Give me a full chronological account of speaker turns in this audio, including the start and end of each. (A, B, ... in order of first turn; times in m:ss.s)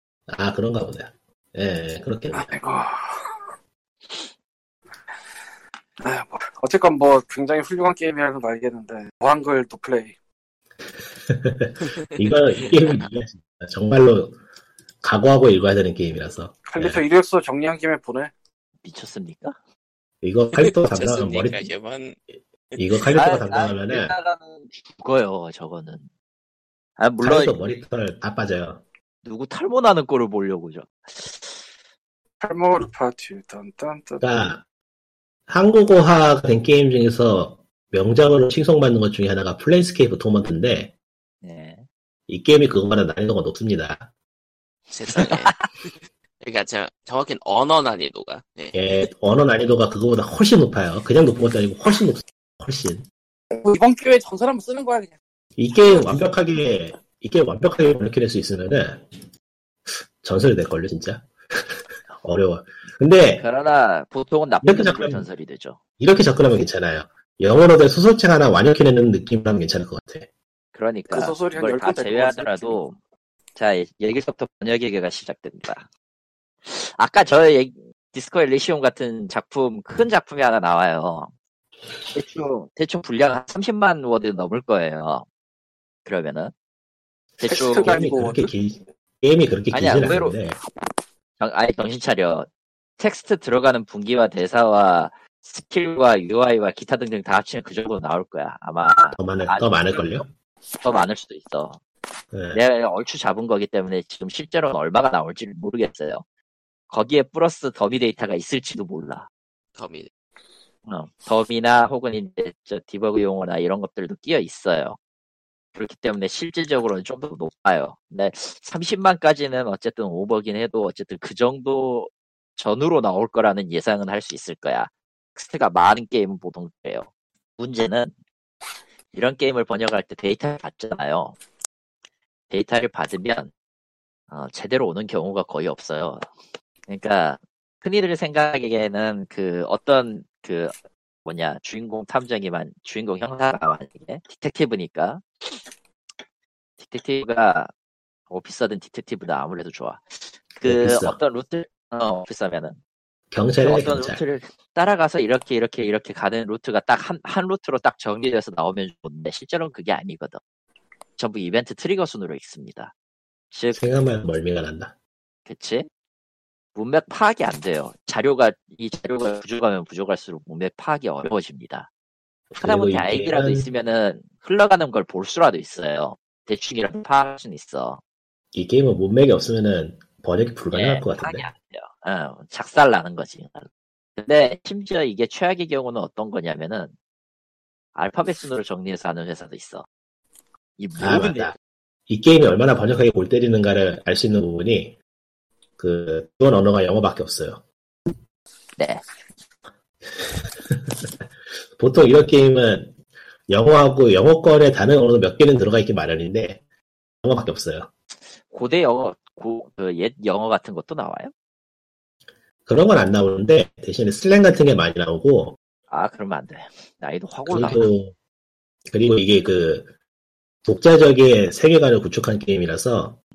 0:00.3-0:02.5 A
0:02.3-0:03.5 B
0:06.0-0:10.1 B
0:11.2-0:14.4 A
0:11.8-0:13.1 C
0:15.0-0:17.0 A
0:16.7-0:18.3 B
0:18.8-0:19.6 D
0:20.2-0:21.7 A
0:20.5-0:22.2 C
0:22.8-0:24.1 A
0:23.1-0:26.1 D
0:27.0-0:27.6 D
0:27.2-0:28.8 A
0:29.2-0:31.5 D
0:32.4-0:34.5 B
0:34.2-0:34.6 A
0:35.5-0:40.9 A
0:41.4-0:41.8 D
0:42.3-0:44.1 A
0:44.9-0:45.9 C
0:45.2-0:45.7 D
0:46.4-0:48.8 C
0:48.7-0:53.0 A
0:53.5-0:55.1 B
0:55.6-0:59.0 A
0:59.9-1:03.4 A
1:03.4-1:05.8 D
1:04.6-1:05.2 A
1:06.0-1:10.3 A
1:10.7-1:13.0 D
1:11.1-1:12.8 B
1:13.6-1:15.9 D
1:16.6-1:21.3 D
1:22.1-1:25.2 D
1:26.0-1:26.5 D
1:27.4-1:28.0 D
1:27.5-1:28.5 B
1:27.5-1:30.6 A
1:29.7-1:30.4 D
1:31.4-1:41.8 D
1:39.2-1:40.2 A
1:42.3-1:42.6 A
1:42.5-1:46.2 D
1:46.9-1:49.3 D
1:49.8-1:50.1 C
1:50.9-1:55.0 D
1:55.7-2:08.1 D
2:09.1-2:11.4 D
2:12.5-2:13.5 D
2:14.3-2:16.3 D
2:16.9-2:25.6 D
2:26.8-2:27.7 D
2:28.3-2:32.8 D
2:30.6-2:31.2 A
2:33.3-2:34.2 A
2:33.6-2:40.4 D
2:41.2-2:42.9 D
2:43.5-2:43.8 D
2:43.7-2:44.9 A
2:45.5-2:45.9 D
2:46.7-2:51.9 D
2:52.5-2:53.7 A
2:52.6-2:58.0 D
2:58.5-3:01.5 A
3:00.7-3:06.9 D
3:07.9-3:09.8 D
3:10.8-3:11.5 D
3:11.0-3:11.6 A
3:12.1-3:15.0 A
3:15.8-3:17.6 A
3:18.8-3:19.0 D
3:20.1-3:21.0 A
3:21.8-3:22.9 A
3:23.5-3:26.6 A
3:27.2-3:27.9 A
3:28.5-3:31.3 D
3:32.7-3:35.6 A
3:35.9-3:37.9 D
3:37.4-3:38.1 A
3:38.9-3:39.9 A
3:40.6-3:43.2 A